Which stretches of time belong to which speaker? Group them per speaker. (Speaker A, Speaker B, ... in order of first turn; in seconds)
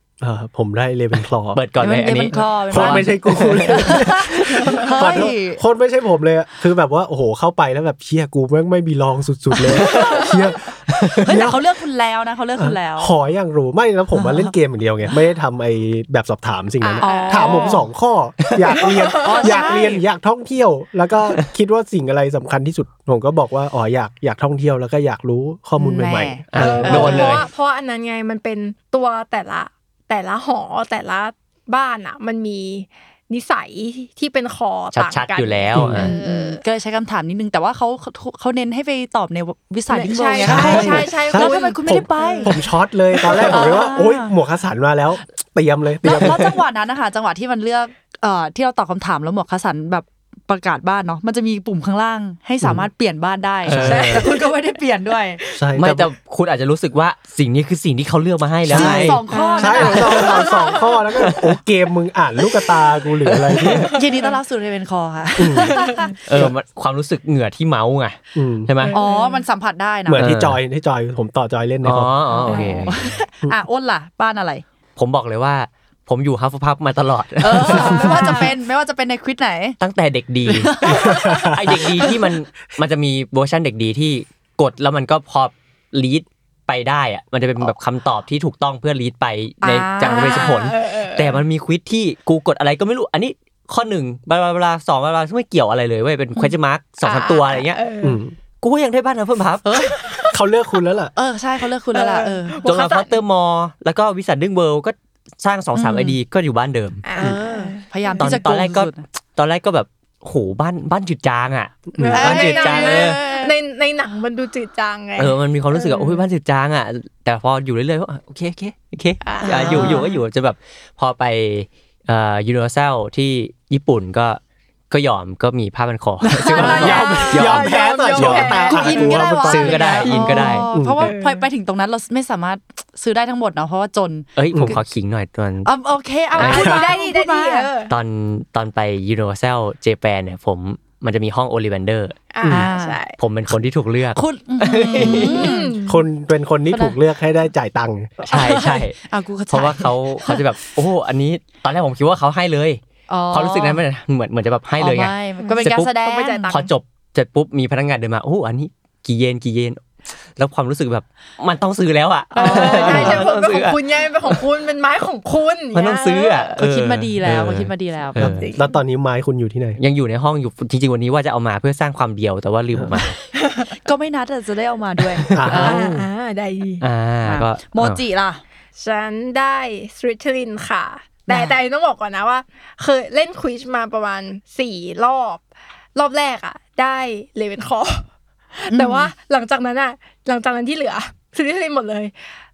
Speaker A: 0.2-1.6, 2.7-11.6, 12.6-27.3, 35.7-36.0, 40.4-46.6, 52.6-52.9, 53.7-54.0, 55.5-56.1, 58.6-63.9, 65.4-66.5, 68.3-68.7, 70.1-72.1, 80.9-82.0, 98.0-98.3, 100.3-101.1, 111.9-112.2, 126.6-130.1, 130.7-131.1, 134.5-134.8, 136.5-136.9, 142.4-142.7, 145.8-148.1, 168.2-169.8, 175.3-176.0
Speaker B: 1.5-4.0, 26.5-27.5, 34.9-36.1, 53.7-54.2, 55.8-59.2, 60.0-60.3, 61.2-61.5, 63.2-63.9, 66.2-69.0, 70.2-70.6, 71.8-73.0, 75.0-78.1, 79.8-97.8, 98.6-99.7, 102.6-107.0, 108.2-113.2, 115.2-128.5, 129.5-130.7, 134.3-135.7, 136.4-136.8, 137.9-142.2, 143.2-145.6, 148.3-148.9, 149.5-155.9, 156.5-159.8, 160.3-164.4, 165.7-168.5, 169.8-173.2, 175.2-175.8, 176.8-178.0
Speaker C: 1.8-5.6, 9.8-10.3, 11.2-13.1, 14.1-14.5, 17.0-17.8, 19.2-20.0, 25.8-27.4, 36.0-42.6, 43.2-44.3, 46.0-55.4, 58.7-60.5, 63.9-66.1, 68.9-70.3, 72.3-74.6, 77.4-79.8, 80.5-81.4, 89.6-90.5, 99.6-100.0, 101.1-102.6, 105.7-106.2, 107.2-109.0, 112.1-113.5, 119.4-120.1, 126.2-127.3, 128.4-134.8, 135.6-137.7, 142.5-143.0, 144.2-145.8, 146.7-147.0, 148.3-150.4, 153.1-153.8, 154.8-156.5, 162.3-163.2, 166.6-168.3, 173.8-175.8, 177.2-178.4, 181.3-181.6, 188.7-189.1
Speaker D: 9.8-10.4, 16.8-17.8, 18.8-19.7, 26.6-36.6, 39.9-42.6, 43.4-43.8, 53.8-54.4, 59.3-61.3, 63.7-64.3, 65.7-66.1, 68.8-69.4, 72.5-72.9, 77.7-78.5, 81.0-81.4, 90.0-91.4, 97.0-98.2, 99.8-100.3, 101.9-103.2, 107.0-108.3, 112.0-116.2, 119.2-120.1, 126.5-129.5, 130.0-131.4, 136.4-137.9, 142.3-143.2, 144.9-146.0, 155.4-156.7, 162.3-166.6, 168.2-168.8, 173.3-173.7, 175.6-176.8, 178.8-192.2